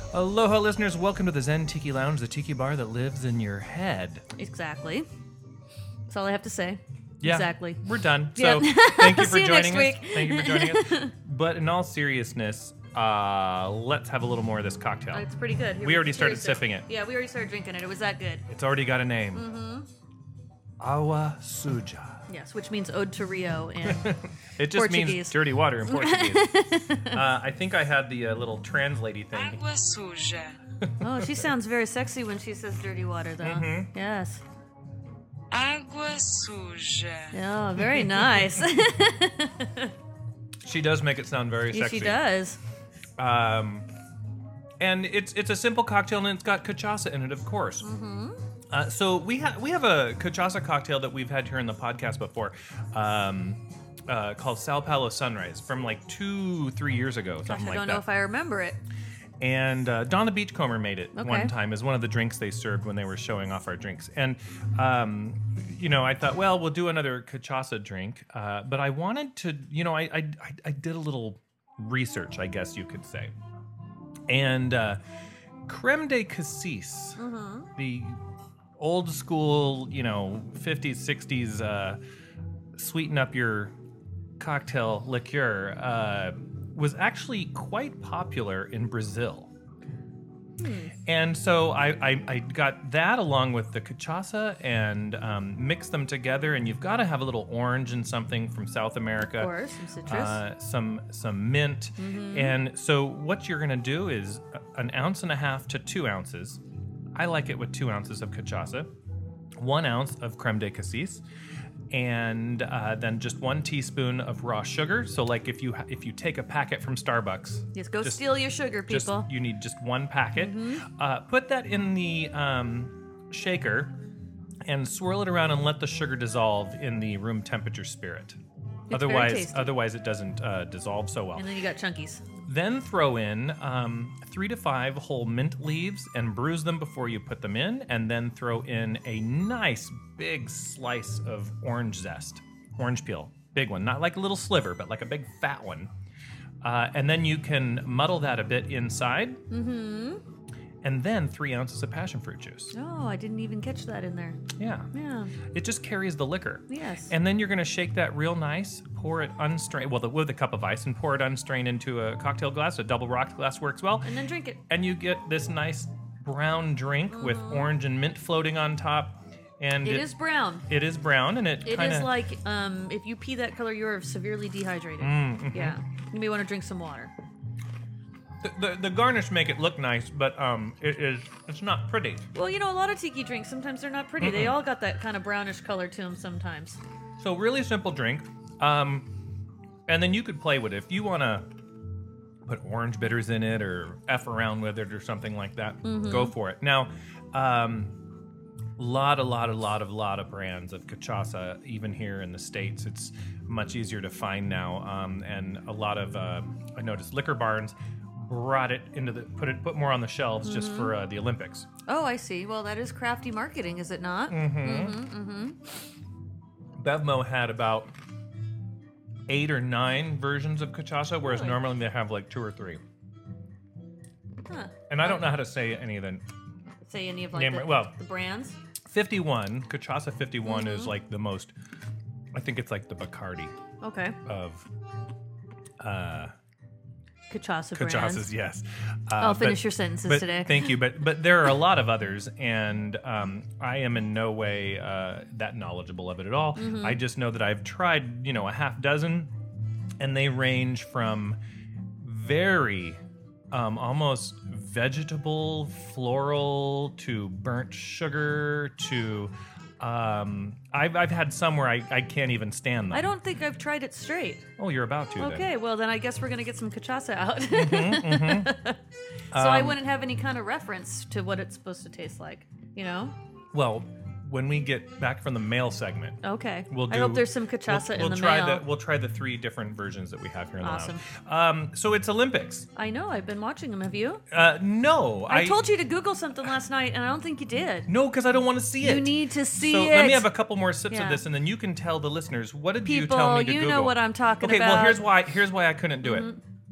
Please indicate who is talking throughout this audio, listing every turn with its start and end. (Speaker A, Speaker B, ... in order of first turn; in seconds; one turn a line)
Speaker A: 0.1-4.2
Speaker B: 4.4-5.1
Speaker B: 6.1-7.8
Speaker A: 7.2-15.3
Speaker B: 8.3-11.1
Speaker B: 15.1-18.5
Speaker A: 15.8-16.9
Speaker A: 18.5-19.5
Speaker B: 19.3-19.9
Speaker A: 20.8-22.2
Speaker B: 22.3-27.2
Speaker A: 23.9-29.6
Speaker C: 29.3-30.6
Speaker A: 30.8-31.5
Speaker B: 31.0-34.4
Speaker A: 33.4-33.9
Speaker C: 35.5-37.4
Speaker B: 37.3-39.9
Speaker A: 37.9-38.6
Speaker A: 40.6-42.2
Speaker B: 41.7-42.6
Speaker A: 43.2-43.9
Speaker A: 44.8-47.9
Speaker B: 47.8-48.4
Speaker A: 48.7-58.0
Speaker B: 57.5-58.8
Speaker A: 59.4-73.3
Speaker B: 61.1-61.5
Speaker A: 74.3-75.0
Speaker A: 75.7-77.2
Speaker B: 77.2-77.7
Speaker A: 77.8-78.2
Speaker A: 78.8-82.0
Speaker A: 82.8-83.7
Speaker A: 84.4-89.5
Speaker B: 90.6-90.9
Speaker A: 91.1-99.5
Speaker B: 99.2-100.4
Speaker A: 100.1-106.6
Speaker B: 102.0-102.5
Speaker A: 107.2-108.9
Speaker A: 109.6-111.2
Speaker A: 111.9-124.0
Speaker B: 117.8-119.3
Speaker B: 120.4-120.9
Speaker A: 124.7-128.4
Speaker B: 128.9-129.8
Speaker A: 128.9-131.5
Speaker B: 131.3-132.2
Speaker A: 132.4-145.9
Speaker A: 146.6-149.4
Speaker B: 149.5-150.2
Speaker A: 150.8-152.7
Speaker B: 152.7-154.4
Speaker A: 154.6-154.9
Speaker B: 154.9-155.3
Speaker A: 155.5-164.1
Speaker B: 156.7-157.1
Speaker B: 164.0-164.6
Speaker A: 164.7-170.1
Speaker B: 167.1-167.7
Speaker B: 169.8-170.7
Speaker A: 170.7-172.1
Speaker B: 171.6-177.1
Speaker A: 175.0-175.8
Speaker A: 178.4-182.2
Speaker B: 182.3-186.8
Speaker A: 184.2-184.6
Speaker A: 187.2-189.1
Speaker A: 189.9-191.5
Speaker A: 192.5-198.0
Speaker B: 195.8-196.3
Speaker A: 198.8-211.7
Speaker B: 210.4-210.9
Speaker B: 211.9-215.6
Speaker A: 214.3-215.0
Speaker A: 216.8-217.9
Speaker A: 219.3-222.8
Speaker B: 221.2-221.6
Speaker B: 224.4-225.2
Speaker A: 224.9-226.2
Speaker B: 226.8-228.6
Speaker A: 227.3-227.9
Speaker A: 228.9-231.5
Speaker B: 230.4-230.9
Speaker A: 232.3-233.5
Speaker B: 233.8-234.2
Speaker A: 234.2-234.7
Speaker A: 235.8-236.3
Speaker B: 237.3-238.3
Speaker A: 237.8-249.3
Speaker B: 239.2-240.7
Speaker B: 246.6-247.0
Speaker A: 250.0-251.4
Speaker A: 252.0-263.1
Speaker B: 262.9-264.5
Speaker A: 264.6-265.5
Speaker B: 265.2-268.8
Speaker A: 267.5-268.5
Speaker A: 269.3-269.8
Speaker B: 269.3-273.1
Speaker A: 273.5-282.7
Speaker B: 276.2-278.6
Speaker B: 280.6-281.0
Speaker B: 282.8-284.2
Speaker A: 284.3-285.6
Speaker B: 285.3-287.9
Speaker A: 287.9-296.3
Speaker B: 288.8-290.3
Speaker B: 290.9-291.2
Speaker B: 292.8-295.1
Speaker B: 296.0-296.4